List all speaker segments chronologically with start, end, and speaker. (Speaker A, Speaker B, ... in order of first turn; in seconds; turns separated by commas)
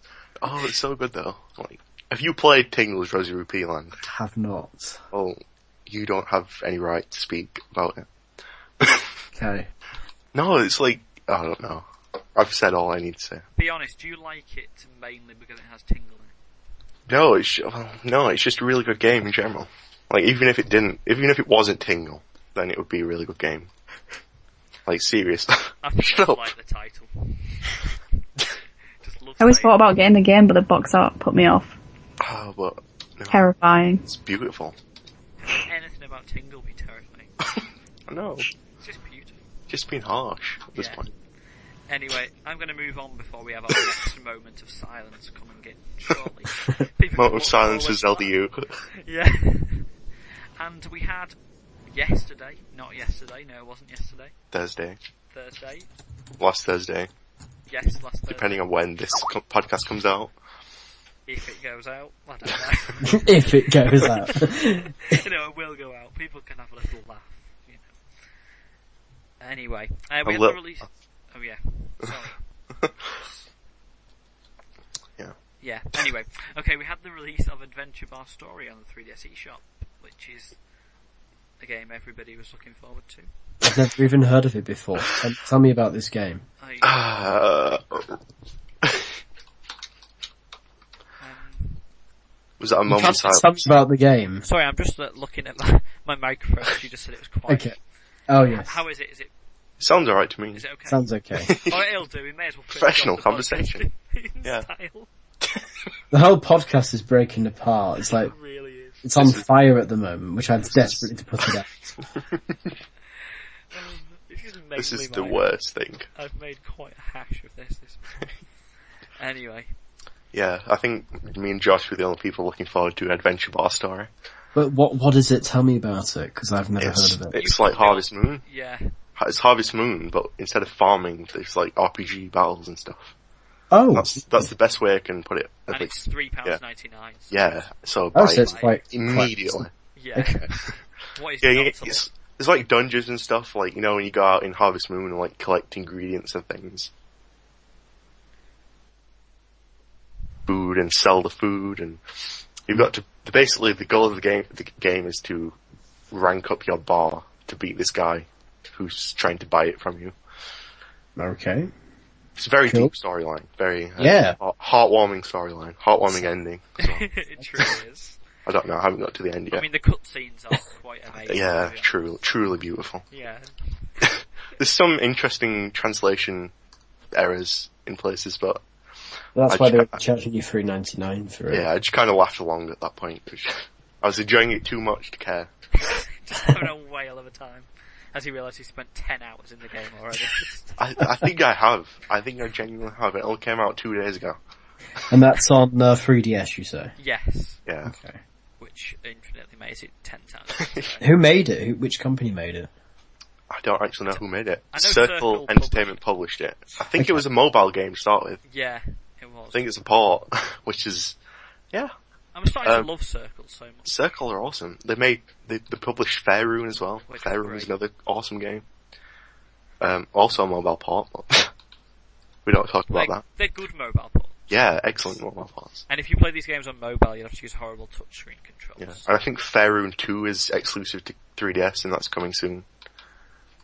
Speaker A: 0.4-4.0, Speaker B: 4.0-5.0, Speaker A: 5.1-8.1, Speaker A: 8.8-9.1, Speaker B: 9.3-9.7, Speaker A: 10.3-11.8, Speaker A: 12.3-13.4, Speaker C: 13.6-16.3, Speaker A: 17.1-23.7, Speaker A: 24.9-26.4, Speaker C: 25.8-27.9, Speaker C: 29.0-29.8, Speaker D: 29.4-31.7, Speaker A: 32.2-33.4, Speaker D: 33.3-34.0, Speaker A: 34.0-34.8, Speaker C: 35.4-37.3, Speaker A: 37.6-38.5, Speaker C: 38.8-39.4, Speaker A: 39.7-41.1, Speaker C: 40.8-41.0, Speaker C: 41.9-48.3, Speaker A: 47.1-48.9, Speaker C: 48.9-49.9, Speaker C: 50.6-51.4, Speaker C: 51.9-54.3, Speaker A: 54.5-55.0, Speaker C: 55.3-55.9, Speaker A: 56.4-57.1, Speaker C: 57.7-58.6, Speaker A: 58.3-60.3, Speaker C: 61.2-68.0, Speaker B: 63.0-64.9, Speaker C: 69.4-73.5, Speaker A: 70.2-70.7, Speaker C: 75.6-80.6, Speaker C: 81.6-83.3, Speaker B: 83.6-86.4, Speaker C: 86.6-86.9, Speaker A: 86.8-88.2, Speaker C: 91.2-91.8, Speaker A: 92.6-93.5, Speaker B: 92.9-94.5, Speaker C: 94.4-97.8, Speaker B: 97.5-97.8, Speaker B: 98.3-98.7, Speaker C: 98.6-99.3, Speaker A: 99.8-100.6, Speaker C: 100.5-101.0, Speaker B: 100.9-101.5, Speaker A: 101.4-101.8, Speaker C: 101.6-105.1, Speaker A: 102.8-103.8, Speaker A: 105.4-105.7, Speaker B: 106.1-108.3, Speaker C: 108.1-109.0, Speaker B: 109.0-112.0, Speaker A: 109.2-109.5, Speaker A: 110.6-111.5, Speaker A: 112.3-112.7, Speaker C: 113.7-115.5, Speaker A: 114.8-116.1, Speaker C: 116.1-118.1, Speaker C: 119.2-119.7, Speaker A: 120.3-124.1, Speaker B: 124.5-127.3, Speaker A: 126.8-128.4, Speaker C: 127.3-128.9, Speaker A: 129.2-133.1, Speaker B: 133.7-134.2, Speaker A: 133.9-136.6, Speaker C: 135.7-137.7, Speaker A: 137.3-139.7, Speaker B: 138.1-140.4, Speaker C: 138.3-138.8, Speaker C: 139.9-140.4, Speaker A: 140.3-140.8, Speaker C: 141.1-142.0, Speaker A: 141.4-146.9, Speaker A: 150.5-152.0, Speaker A: 152.7-155.6, Speaker A: 156.1-160.1, Speaker B: 161.2-161.7, Speaker A: 162.4-167.7, Speaker B: 162.7-162.9, Speaker B: 164.0-164.4, Speaker C: 166.8-168.2, Speaker A: 168.4-169.6, Speaker C: 169.5-171.9, Speaker A: 171.2-173.1, Speaker C: 173.1-174.1, Speaker A: 174.0-176.5, Speaker A: 177.1-178.6, Speaker B: 179.3-181.7, Speaker A: 179.5-180.0, Speaker A: 181.5-185.5, Speaker C: 185.7-190.8, Speaker A: 190.8-194.4, Speaker B: 195.1-196.9, Speaker C: 197.0-197.6, Speaker A: 197.7-197.9, Speaker B: 197.8-198.2, Speaker C: 198.6-201.0, Speaker A: 200.6-200.9, Speaker B: 201.0-202.7, Speaker A: 203.5-208.4, Speaker C: 204.7-206.0, Speaker B: 207.0-207.2, Speaker C: 208.4-209.7, Speaker A: 209.5-211.2, Speaker C: 212.3-213.9, Speaker A: 213.8-218.6, Speaker C: 217.1-217.7, Speaker A: 219.8-221.5, Speaker A: 222.4-223.2, Speaker C: 222.9-224.5, Speaker A: 224.5-225.8, Speaker C: 225.9-229.1, Speaker A: 228.8-232.6